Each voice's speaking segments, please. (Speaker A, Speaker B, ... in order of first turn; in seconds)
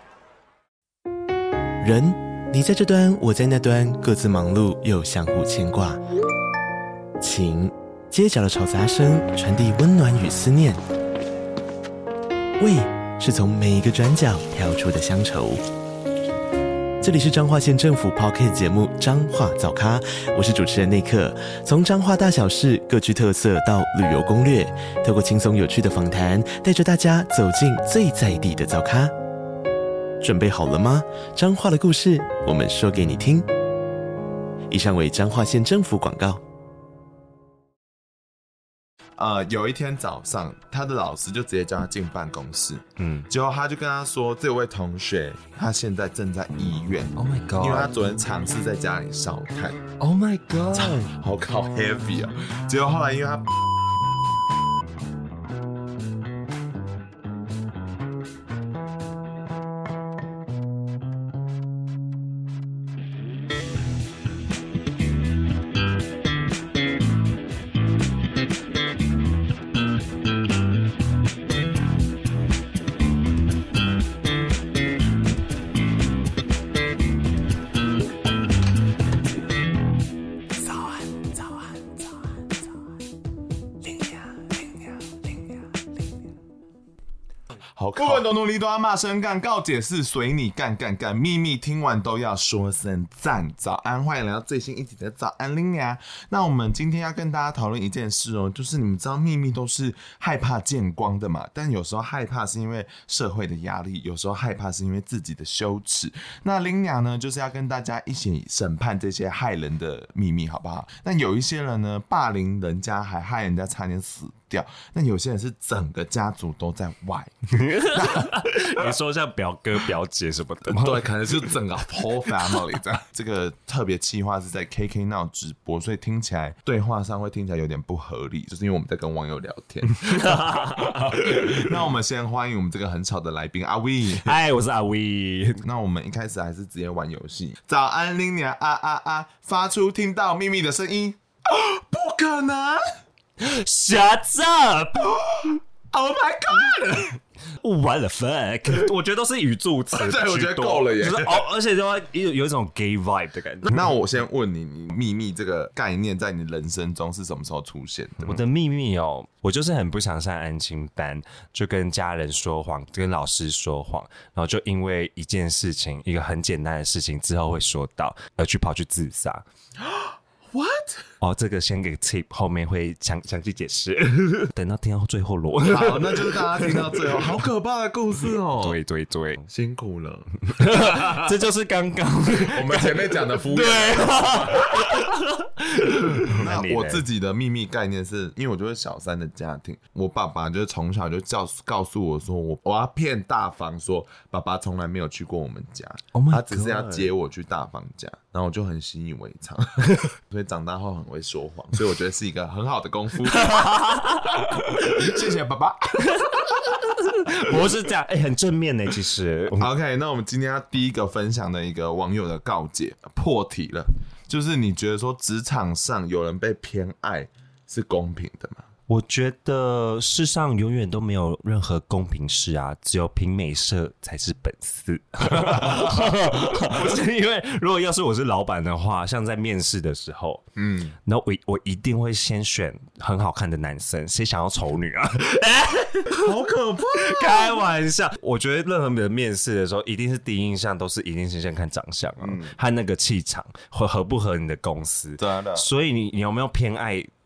Speaker A: 1.8-6.0, 7.2-10.8, 12.6-15.6, 17.0-29.1, 30.2-33.5, 34.7-36.4
Speaker B: 39.2-49.8, 50.7-53.5, 87.7-118.9, 120.7-134.3, 135.6-142.8, 145.0-147.2, 149.9-151.4, 153.7-158.4, 169.8-171.1, 175.6-178.8, 179.5-181.3, 182.4-185.1, 186.1-206.9, 209.5-218.6, 225.2-226.9, 230.6-230.9, 236.1-237.6, 242.2-242.5, 245.2-245.7
Speaker C: 43.0-43.3, 47.1-47.9, 50.0-51.0, 117.5-121.0, 130.0-131.8, 134.2-135.6, 143.4-145.1, 147.6-153.8, 158.2-169.4, 171.2-177.3, 178.6-179.5, 180.5-187.0, 196.1-197.1, 203.3-204.4, 206.1-209.7, 218.9-230.4, 231.0-236.2, 236.9-247.1